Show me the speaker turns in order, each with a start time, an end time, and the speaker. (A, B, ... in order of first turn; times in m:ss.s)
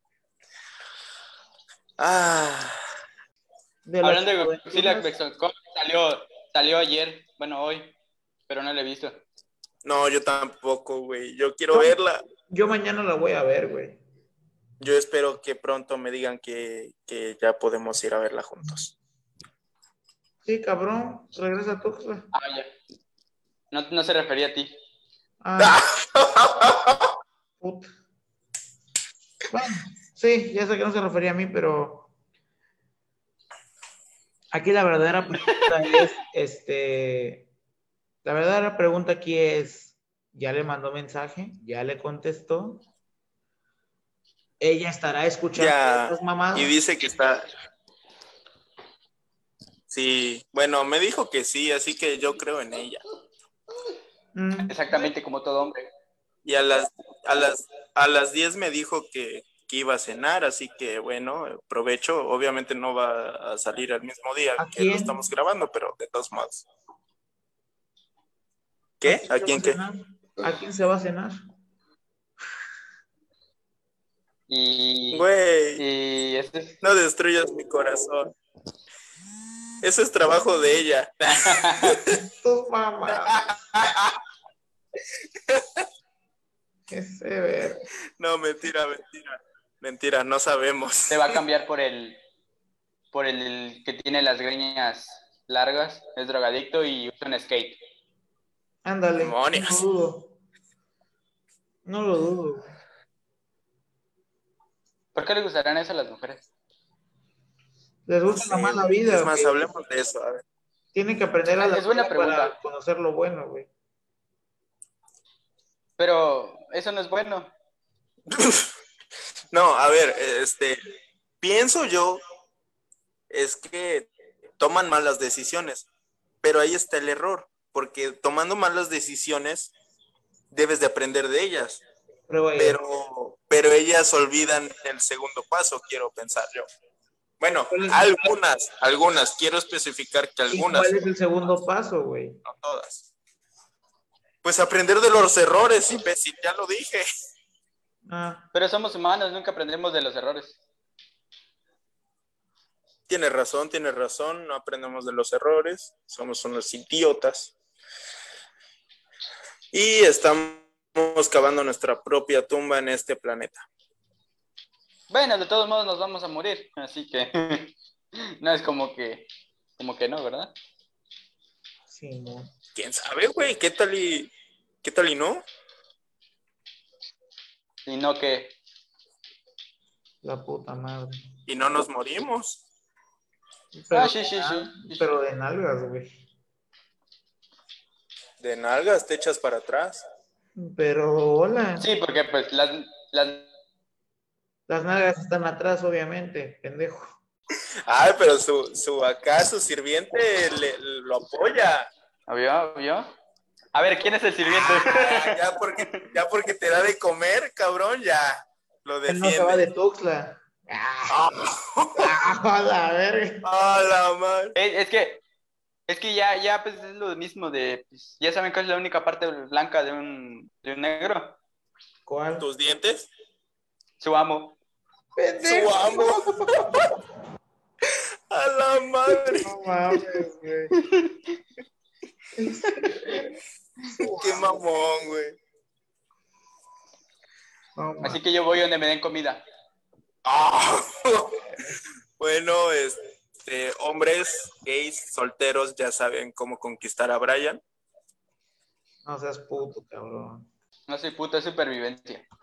0:02.0-0:02.8 A
0:03.8-0:05.1 B
0:04.0-0:07.9 C
0:08.5-0:09.2 C
0:09.8-0:12.2 A
0:12.5-0:14.0 B
0:14.8-0:18.9 A
0:20.4-0:22.3 B
0:22.3-0:22.7 C
0:23.7-0:24.7 C
0:25.4-0:25.8 B
0:25.6-0:27.1 A
0:27.6-0:27.9 B
0:29.5-0:32.1 B
0:34.5-0:37.5 B
0:35.4-0:36.1 C
0:38.2-0:42.8 B
0:44.6-0:46.7 B
0:45.6-0:47.5 A
0:49.9-0:53.0 A
0:54.4-0:55.1 B
0:54.7-0:55.9 C
0:56.4-1:06.7 A
1:04.6-1:05.2 B
1:09.0-1:09.8 A
1:09.0-1:11.4 B
1:14.5-1:15.3 C
1:15.1-1:15.8 A
1:15.8-1:16.8 C
1:16.8-1:18.4 A
1:19.8-1:22.2 A
1:21.4-1:22.0 C
1:22.1-1:23.4 B
1:23.3-1:24.2 A
1:25.5-1:25.8 A
1:26.9-1:27.9 B
1:28.2-1:31.4 A
1:31.1-1:32.2 C
1:33.1-1:37.8 C
1:38.8-1:40.3 B
1:39.2-1:39.8 A
1:41.8-1:42.7 B
1:45.2-1:46.4 C
1:48.1-1:49.6 B
1:48.3-1:50.4 A
1:50.9-1:53.7 B
1:51.6-1:52.6 C
1:56.0-1:57.5 C
1:58.3-1:58.7 A
1:59.5-2:00.8 A
2:01.4-2:02.2 A
2:03.3-2:05.9 A
2:06.4-2:09.7 A
2:10.5-2:11.8 A
2:12.3-2:12.8 B
2:12.6-2:16.7 A
2:17.4-2:20.9 A
2:17.7-2:18.2 B
2:20.5-2:22.4 B
2:22.4-2:23.1 A
2:24.4-2:27.0 A
2:28.1-2:28.5 B
2:28.5-2:30.6 C
2:33.1-2:37.5 A
2:39.7-2:43.7 A
2:45.1-2:49.3 C
2:49.8-2:50.5 C
2:51.9-2:52.5 B
2:52.8-2:54.3 A
2:54.8-2:55.4 A
2:57.9-2:58.5 C
3:00.2-3:01.2 B
3:01.5-3:02.6 A
3:03.7-3:06.1 B
3:03.9-3:05.1 C
3:08.4-3:10.0 A
3:10.6-3:11.9 B
3:11.8-3:13.5 C
3:14.7-3:17.2 B
3:17.9-3:21.9 A
3:22.3-3:23.1 C
3:23.7-3:26.0 C
3:24.8-3:29.7 A
3:29.1-3:31.3 B
3:31.1-3:32.1 A
3:32.0-3:33.4 B
3:33.4-3:34.6 A
3:34.6-3:35.2 C
3:35.9-3:41.4 C
3:42.1-3:42.5 B
3:42.4-3:43.1 A
3:44.0-3:44.6 C
3:45.2-3:46.7 B
3:45.4-3:46.8 A
3:48.3-3:49.5 A
3:49.4-3:50.7 B
3:50.8-3:51.2 C
3:52.4-3:53.3 B
3:53.9-3:54.6 B
3:54.0-3:55.4 A
3:57.8-3:58.2 B
3:58.0-3:59.4 C
4:00.2-4:01.4 A
4:02.2-4:07.6 A
4:09.0-4:10.5 B
4:10.9-4:12.2 C